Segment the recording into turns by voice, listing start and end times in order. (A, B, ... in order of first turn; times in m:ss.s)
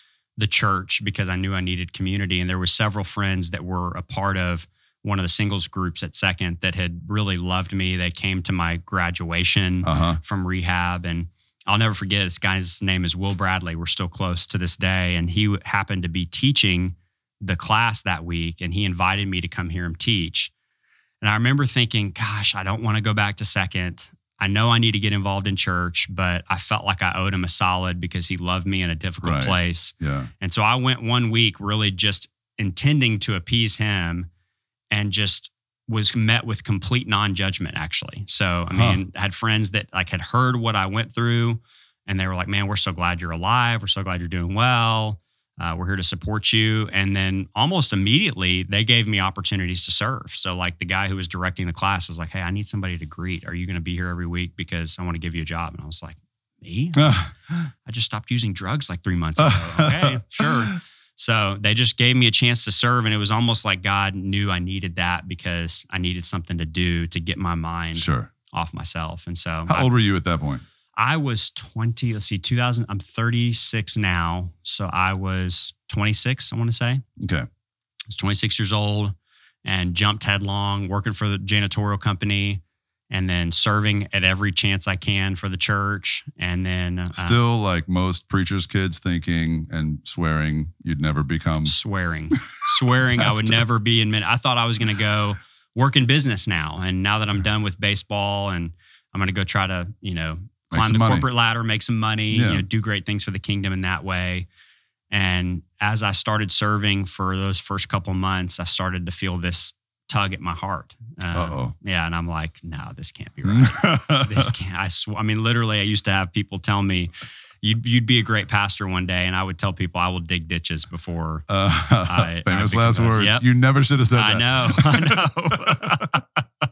0:00.4-0:20.5 A
0:09.8-0:10.2 B
0:21.2-0:34.3 A
0:29.2-0:30.3 B
0:34.9-0:57.2 A
0:38.7-0:39.0 B
0:57.0-0:57.7 B
0:57.8-1:09.9 A
0:59.4-1:00.8 B
1:07.9-1:08.3 B
1:09.7-1:10.6 B
1:11.0-1:17.0 A
1:17.2-1:17.5 B
1:18.1-1:27.4 A
1:27.1-1:31.7 B
1:31.6-1:44.4 A
1:32.7-1:33.6 B
1:40.7-1:41.3 B
1:42.3-1:42.6 B
1:45.1-2:01.5 A
1:51.3-1:51.7 B
1:53.4-1:54.5 B
2:01.5-2:06.2 B
2:02.0-2:03.4 A
2:04.1-2:06.2 A